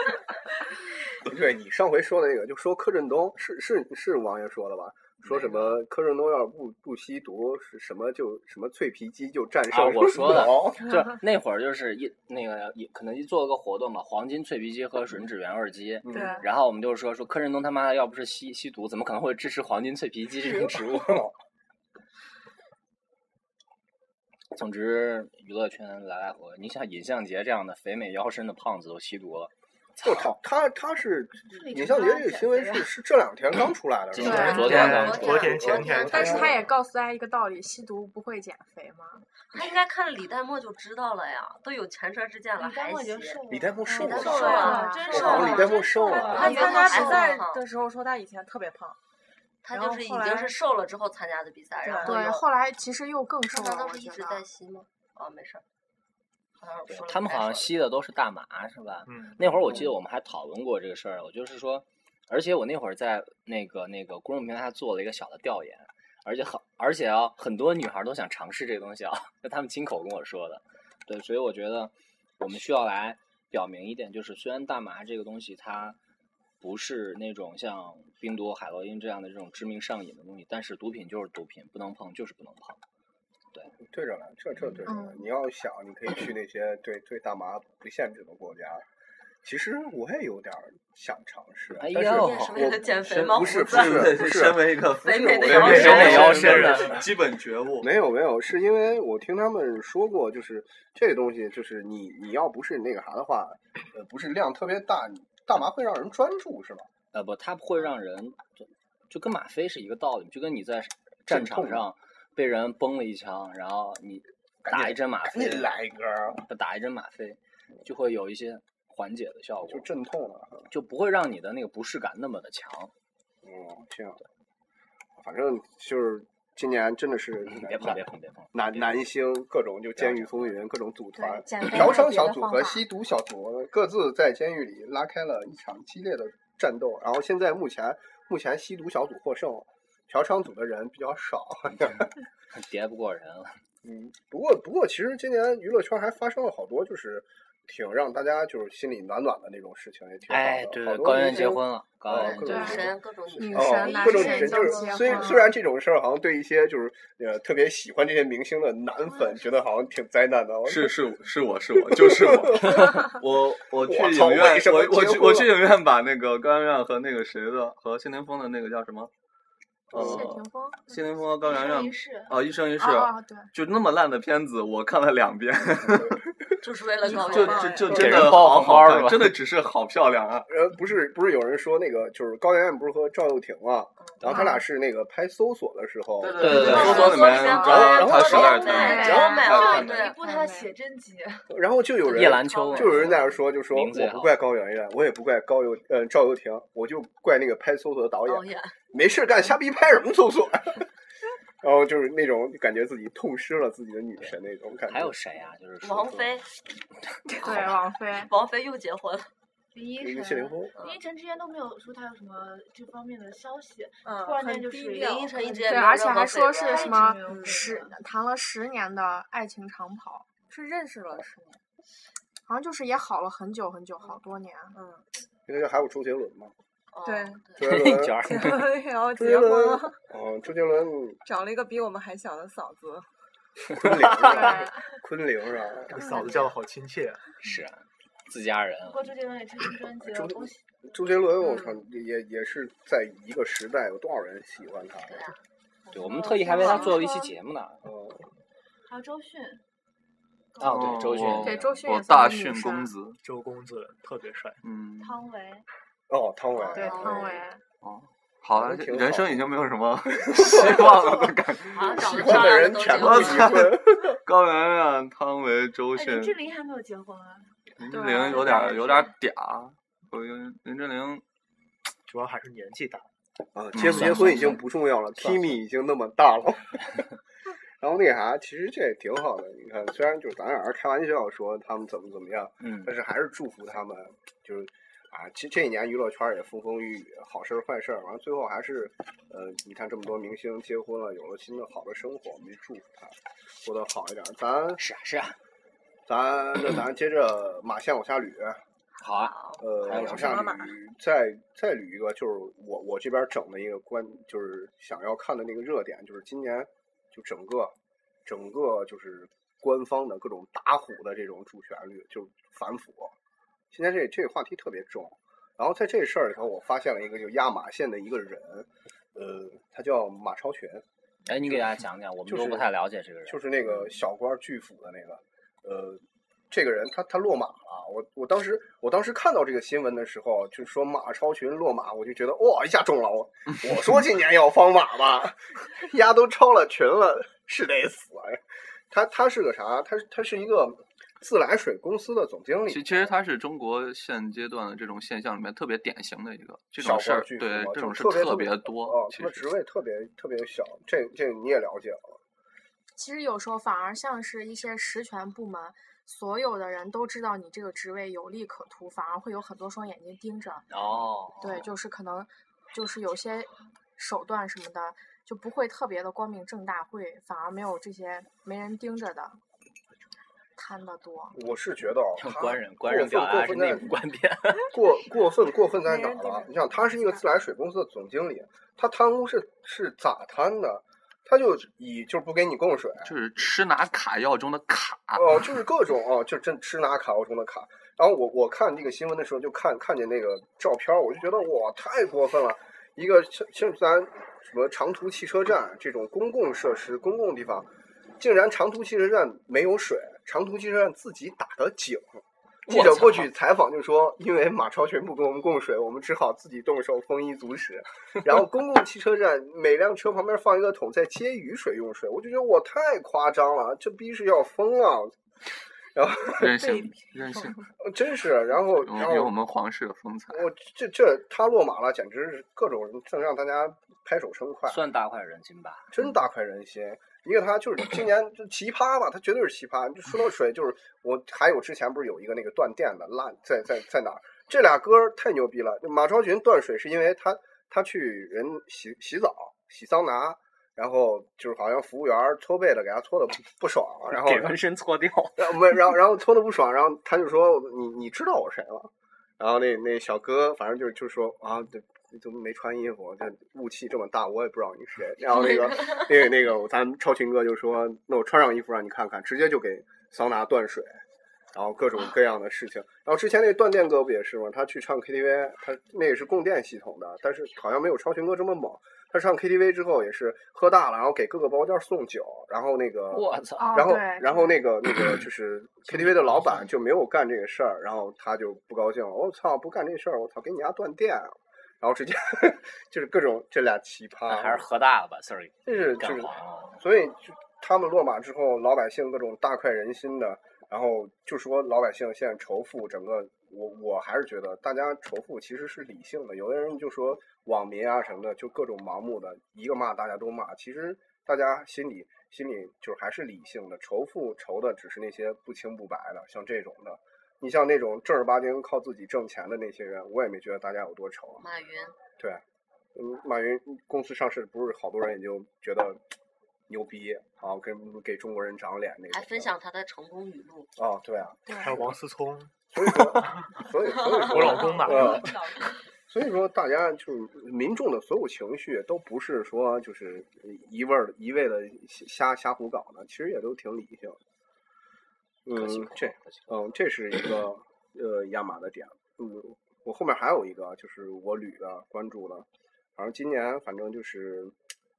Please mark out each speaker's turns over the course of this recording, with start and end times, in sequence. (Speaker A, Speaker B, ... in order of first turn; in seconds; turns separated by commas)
Speaker A: 1.2-10.9, Speaker B: 5.2-5.8, Speaker B: 9.7-21.2, Speaker A: 16.0-16.4, Speaker A: 20.4-21.3, Speaker B: 24.5-30.3, Speaker A: 30.0-36.6, Speaker C: 31.5-32.9, Speaker B: 34.1-35.5, Speaker D: 34.2-34.9, Speaker E: 34.2-36.5, Speaker F: 34.7-36.5, Speaker D: 36.0-39.2, Speaker F: 39.5-47.6, Speaker C: 42.6-47.4, Speaker A: 43.5-46.5, Speaker D: 43.9-45.7, Speaker G: 44.3-44.8, Speaker G: 46.1-49.0, Speaker F: 49.6-52.5, Speaker G: 49.7-50.5, Speaker G: 51.8-52.2, Speaker D: 52.0-54.4, Speaker F: 53.5-55.6, Speaker F: 56.6-57.7, Speaker B: 56.9-76.0, Speaker E: 59.0-59.6, Speaker B: 76.6-82.8, Speaker A: 83.8-88.8, Speaker D: 84.8-85.2, Speaker A: 89.4-96.2, Speaker B: 91.7-92.5, Speaker F: 92.0-94.2, Speaker H: 93.1-97.9, Speaker F: 94.9-96.6, Speaker B: 95.5-97.0, Speaker A: 97.8-106.9, Speaker B: 107.1-115.7, Speaker A: 111.3-111.9, Speaker A: 114.6-116.4, Speaker B: 116.4-119.9, Speaker A: 119.7-120.7, Speaker B: 120.7-122.9, Speaker A: 123.4-124.2, Speaker A: 125.2-142.1, Speaker B: 127.5-129.1, Speaker B: 130.0-130.5, Speaker D: 131.2-132.8, Speaker B: 142.5-143.5, Speaker A: 143.8-161.0, Speaker B: 150.3-152.9, Speaker F: 152.1-154.6, Speaker D: 152.4-152.8, Speaker D: 153.3-155.5, Speaker C: 153.8-155.5, Speaker H: 160.7-169.1, Speaker A: 161.8-163.0, Speaker A: 163.8-165.5, Speaker A: 169.9-170.2, Speaker H: 169.9-176.2, Speaker D: 169.9-170.8, Speaker C: 170.9-172.3, Speaker D: 172.8-173.5, Speaker F: 176.6-178.0, Speaker G: 177.1-177.9, Speaker H: 177.1-180.5, Speaker B: 177.8-179.3, Speaker A: 180.5-189.8, Speaker D: 184.3-184.6, Speaker H: 186.2-190.0, Speaker B: 186.4-187.1, Speaker F: 186.5-190.2, Speaker D: 186.6-187.6, Speaker C: 186.9-187.5, Speaker C: 188.3-191.5, Speaker D: 188.7-189.4, Speaker D: 190.1-190.7, Speaker A: 191.5-200.9, Speaker B: 192.0-194.4, Speaker C: 192.4-193.0, Speaker F: 198.2-198.7, Speaker A: 201.6-205.2, Speaker B: 204.9-206.3, Speaker F: 205.8-206.5, Speaker F: 207.4-209.3, Speaker D: 207.4-208.3, Speaker C: 209.7-217.9, Speaker A: 209.9-210.7, Speaker F: 210.7-211.0, Speaker G: 214.0-215.3, Speaker F: 214.9-217.1, Speaker D: 215.7-221.6, Speaker G: 217.2-217.7, Speaker D: 222.5-224.8, Speaker G: 224.7-225.0, Speaker A: 225.5-226.5, Speaker F: 226.9-227.6, Speaker G: 227.0-227.4, Speaker A: 227.6-228.4, Speaker B: 227.6-228.7, Speaker G: 228.2-230.0, Speaker A: 229.1-231.2, Speaker G: 231.2-233.1, Speaker A: 233.7-236.1, Speaker D: 234.3-234.6, Speaker E: 235.9-237.2, Speaker C: 235.9-236.5, Speaker B: 237.4-239.0, Speaker C: 238.8-240.6, Speaker A: 240.0-245.3, Speaker F: 245.1-245.4, Speaker C: 245.9-247.1, Speaker B: 245.9-247.8, Speaker D: 246.5-247.2, Speaker A: 247.8-248.2, Speaker C: 248.8-249.6, Speaker C: 250.6-251.4, Speaker B: 250.6-251.7, Speaker H: 250.6-253.2, Speaker D: 251.4-252.9, Speaker E: 253.2-254.6, Speaker H: 254.6-255.2, Speaker C: 255.0-255.6, Speaker A: 256.1-257.4, Speaker D: 256.7-257.6, Speaker F: 256.8-257.4, Speaker H: 257.8-266.4, Speaker A: 258.5-259.4, Speaker A: 260.3-264.2, Speaker F: 261.6-263.6, Speaker C: 265.9-269.1, Speaker H: 267.8-271.2, Speaker D: 267.9-268.7, Speaker E: 272.1-273.1, Speaker A: 273.5-276.8, Speaker H: 273.7-274.6, Speaker B: 273.8-274.6, Speaker B: 275.2-275.5, Speaker A: 277.8-294.8, Speaker B: 282.6-282.9, Speaker B: 294.8-295.4, Speaker A: 296.1-298.6, Speaker B: 299.0-300.5, Speaker F: 299.3-299.6, Speaker A: 299.6-307.7, Speaker G: 299.9-300.7, Speaker A: 308.2-313.1, Speaker A: 313.7-320.8, Speaker B: 321.3-323.9, Speaker A: 322.2-322.6, Speaker A: 323.2-343.1, Speaker H: 342.7-349.5, Speaker A: 346.8-352.2, Speaker D: 352.9-360.6, Speaker B: 360.7-361.7, Speaker D: 361.4-369.4, Speaker D: 370.6-371.4, Speaker A: 371.3-373.9, Speaker B: 372.2-374.7, Speaker A: 374.7-383.2, Speaker G: 375.9-376.5, Speaker H: 383.0-385.5, Speaker A: 385.1-415.1, Speaker B: 402.7-403.3, Speaker A: 415.9-416.8, Speaker H: 416.4-417.6, Speaker A: 417.8-419.3, Speaker H: 418.8-420.4, Speaker A: 420.3-424.8, Speaker B: 424.7-425.9, Speaker A: 425.9-444.6, Speaker B: 444.1-445.4, Speaker A: 445.4-461.0, Speaker A: 461.5-484.6, Speaker B: 473.1-473.8, Speaker D: 473.6-474.6, Speaker B: 484.3-486.8, Speaker A: 485.6-511.4, Speaker F: 511.4-511.9, Speaker A: 512.9-516.0, Speaker A: 516.7-519.5, Speaker F: 519.1-520.7, Speaker A: 520.8-521.9, Speaker E: 521.6-523.5, Speaker A: 522.7-525.3, Speaker E: 524.1-525.4, Speaker F: 524.9-525.3, Speaker A: 526.1-534.2, Speaker A: 535.5-544.5, Speaker B: 535.5-536.5